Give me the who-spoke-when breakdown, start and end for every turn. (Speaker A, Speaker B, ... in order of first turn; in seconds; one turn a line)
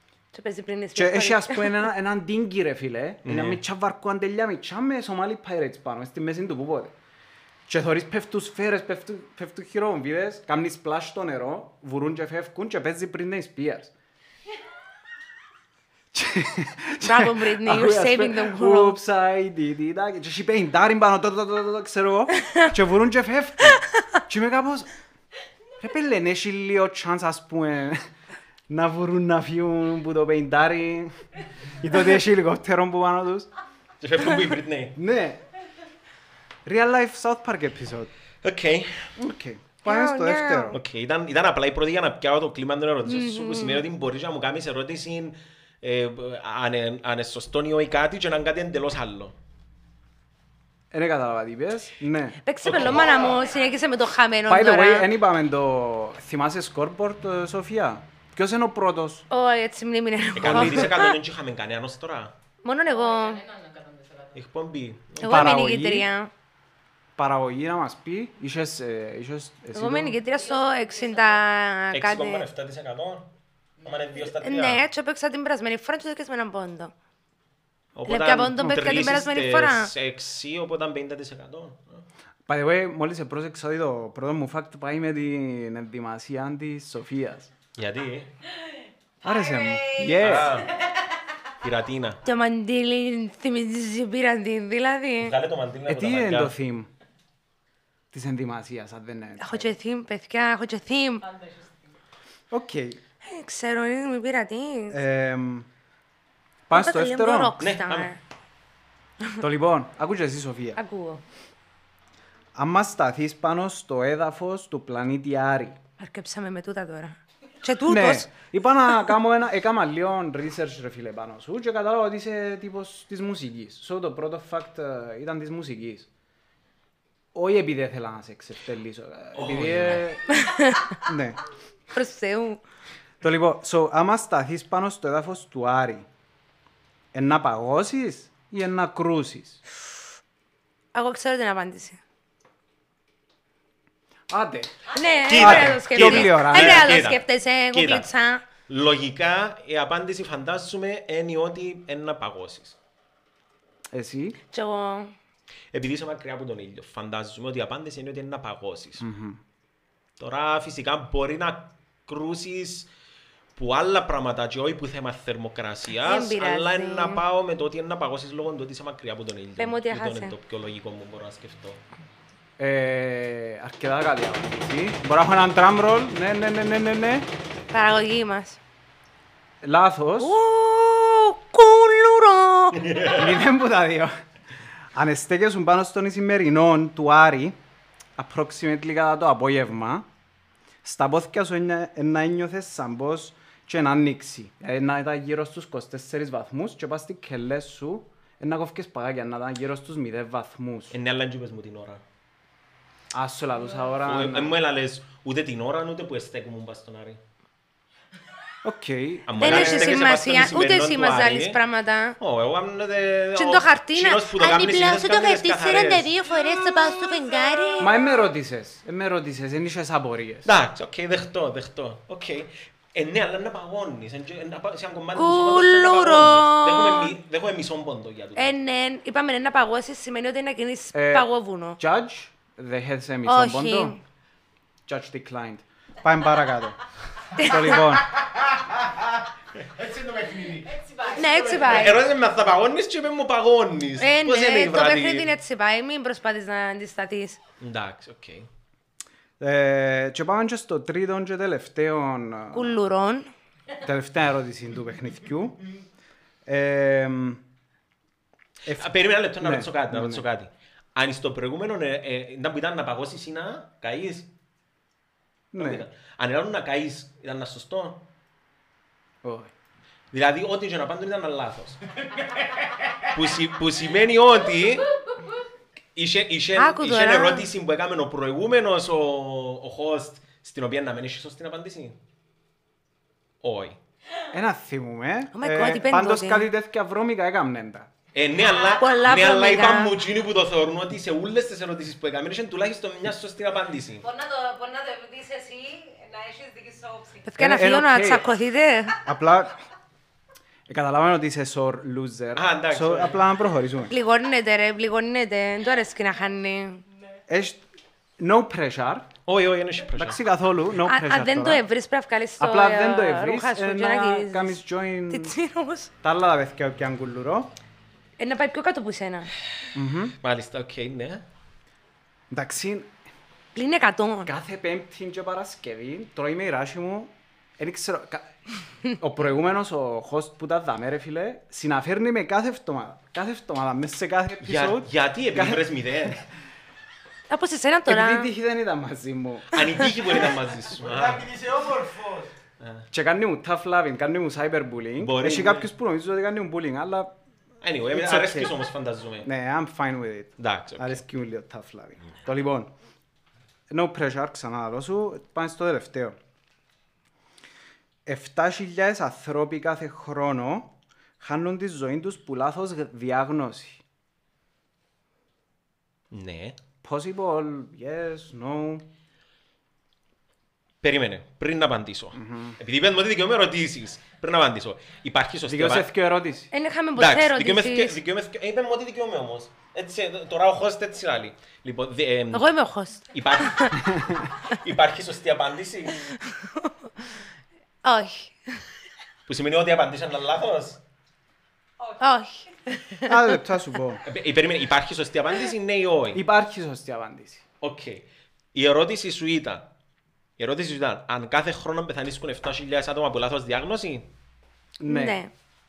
Speaker A: 0.3-1.9
Speaker B: 0.9-7.0
Speaker C: 3.2-3.6
Speaker B: 7.7-13.9
Speaker B: 16.1-24.9
Speaker A: 17.0-19.0
Speaker B: 25.8-28.0
Speaker B: 28.7-33.5
Speaker C: 34.0-35.0
Speaker B: 35.0-35.4
Speaker B: 36.7-38.1
Speaker C: 38.4-39.1
Speaker B: 39.2-40.8
Speaker A: 39.9-40.8
Speaker C: 40.7-49.4
Speaker A: 43.1-43.9
Speaker B: 50.9-52.4
Speaker A: 52.4-55.1
Speaker C: 52.6-53.3
Speaker D: 53.0-53.8
Speaker B: 54.5-59.3
Speaker A: 59.3-61.2
Speaker C: 60.4-62.4
Speaker B: 60.4-60.9
Speaker A: 62.6-63.4
Speaker D: 62.9-64.4
Speaker C: 64.3-65.6
Speaker A: 65.2-66.3
Speaker B: 65.2-66.1
Speaker B: 67.2-70.2
Speaker A: 69.7-72.5
Speaker D: 70.3-71.5
Speaker C: 71.9-73.3
Speaker D: 73.8-74.1
Speaker C: 73.8-74.8
Speaker A: 74.4-76.9
Speaker C: 78.0-82.0
Speaker A: 78.1-79.9
Speaker B: 82.5-87.5
Speaker C: 87.8-88.3
Speaker D: 89.2-91.1
Speaker B: 89.2-90.5
Speaker C: 90.2-90.7
Speaker C: 91.6-92.2
Speaker A: 92.2-95.3
Speaker C: 95.2-96.5
Speaker B: 95.9-96.9
Speaker B: 98.1-99.8
Speaker A: 99.4-101.2
Speaker D: 101.3-101.9
Speaker B: 102.5-103.0
Speaker A: 103.2-105.0
Speaker B: 104.9-105.7
Speaker B: 106.7-107.6
Speaker A: 106.7-108.2
Speaker C: 107.6-108.1
Speaker B: 109.4-110.8
Speaker A: 110.8-111.2
Speaker B: 112.5-115.8
Speaker A: 116.0-118.3
Speaker B: 117.9-126.1
Speaker B: 127.3-130.2
Speaker C: 129.3-130.1
Speaker A: 130.3-130.9
Speaker B: 131.0-131.4
Speaker A: 131.9-132.6
Speaker B: 133.2-136.1
Speaker B: 137.1-139.6
Speaker A: 140.9-142.0
Speaker B: 144.3-144.7
Speaker A: 144.9-148.5
Speaker C: 145.3-148.1
Speaker B: 145.4-146.9
Speaker C: 148.7-152.8
Speaker B: 153.9-154.4
Speaker A: 154.5-155.1
Speaker C: 155.7-159.1
Speaker B: 159.0-159.4
Speaker C: 160.2-162.9
Speaker C: 163.6-171.8
Speaker A: 166.0-167.2
Speaker A: 169.6-170.3
Speaker B: 172.6-177.3
Speaker A: 177.7-178.6
Speaker B: 179.6-180.4
Speaker A: 180.2-183.0
Speaker C: 182.8-183.3
Speaker B: 183.1-184.1
Speaker B: 184.9-187.6
Speaker B: 188.2-190.1
Speaker B: 190.8-200.9
Speaker C: 200.9-202.0
Speaker B: 203.1-204.6
Speaker C: 204.0-207.2
Speaker B: 208.6-210.0
Speaker C: 209.3-211.6
Speaker A: 209.4-212.2
Speaker C: 212.2-216.2
Speaker A: 213.4-218.0
Speaker B: 217.8-220.5
Speaker C: 220.4-228.6
Speaker A: 225.2-227.1
Speaker A: 228.4-231.8
Speaker B: 230.9-234.0
Speaker A: 233.3-234.0
Speaker B: 234.9-236.8
Speaker A: 237.4-237.7
Speaker B: 237.4-238.1
Speaker E: 237.8-239.2
Speaker E: 239.7-242.0
Speaker D: 240.7-241.7
Speaker A: 241.2-242.0
Speaker C: 241.7-245.3
Speaker A: 244.0-247.4
Speaker C: 247.6-248.5
Speaker B: 249.4-252.8
Speaker A: 252.5-253.3
Speaker B: 253.8-255.7
Speaker B: 256.5-257.4
Speaker C: 258.7-264.3
Speaker B: 259.4-260.2
Speaker B: 265.5-265.9
Speaker C: 265.6-268.1
Speaker B: 269.2-269.5
Speaker C: 270.1-271.8
Speaker C: 273.1-274.9
Speaker C: 276.0-282.0
Speaker A: 276.6-277.5
Speaker C: 283.4-283.8
Speaker B: 284.3-287.9
Speaker A: 285.3-286.5
Speaker C: 288.1-294.0
Speaker A: 288.8-289.9
Speaker D: 294.0-297.3
Speaker A: 297.3-299.0
Speaker B: 297.4-298.3
Speaker B: 299.0-299.5
Speaker B: 300.7-303.9
Speaker C: 302.4-303.2
Speaker A: 303.9-306.8
Speaker B: 307.3-307.6
Speaker B: 308.2-309.1
Speaker C: 309.3-310.2
Speaker B: 309.9-311.6
Speaker A: 310.9-314.6
Speaker B: 312.4-315.4
Speaker A: 315.1-315.9
Speaker B: 316.0-317.5
Speaker A: 318.2-319.3
Speaker B: 319.7-320.1
Speaker C: 320.2-321.2
Speaker B: 322.3-322.9
Speaker A: 323.6-324.3
Speaker B: 324.3-328.3
Speaker B: 329.0-335.6
Speaker C: 334.4-336.2
Speaker A: 337.3-338.3
Speaker B: 337.9-340.1
Speaker C: 339.5-341.3
Speaker E: 340.8-342.3
Speaker C: 342.6-342.9
Speaker B: 342.9-347.1
Speaker C: 345.0-345.7
Speaker C: 347.6-349.3
Speaker B: 347.9-348.5
Speaker B: 349.2-352.7
Speaker C: 350.4-351.0
Speaker B: 353.7-356.2
Speaker B: 358.1-363.8
Speaker C: 366.1-366.6
Speaker B: 366.8-368.9
Speaker C: 370.8-375.9
Speaker B: 372.2-372.6
Speaker B: 375.5-376.5
Speaker A: 376.5-378.0
Speaker C: 377.0-382.5
Speaker A: 382.3-383.8
Speaker C: 383.1-386.1
Speaker A: 386.3-386.7
Speaker A: 387.8-388.5
Speaker C: 389.3-390.8
Speaker A: 392.0-393.1
Speaker B: 393.1-394.0
Speaker C: 394.1-396.2
Speaker B: 396.1-397.4
Speaker C: 397.6-399.7
Speaker C: 400.4-404.1
Speaker B: 404.8-405.2
Speaker A: 404.9-405.3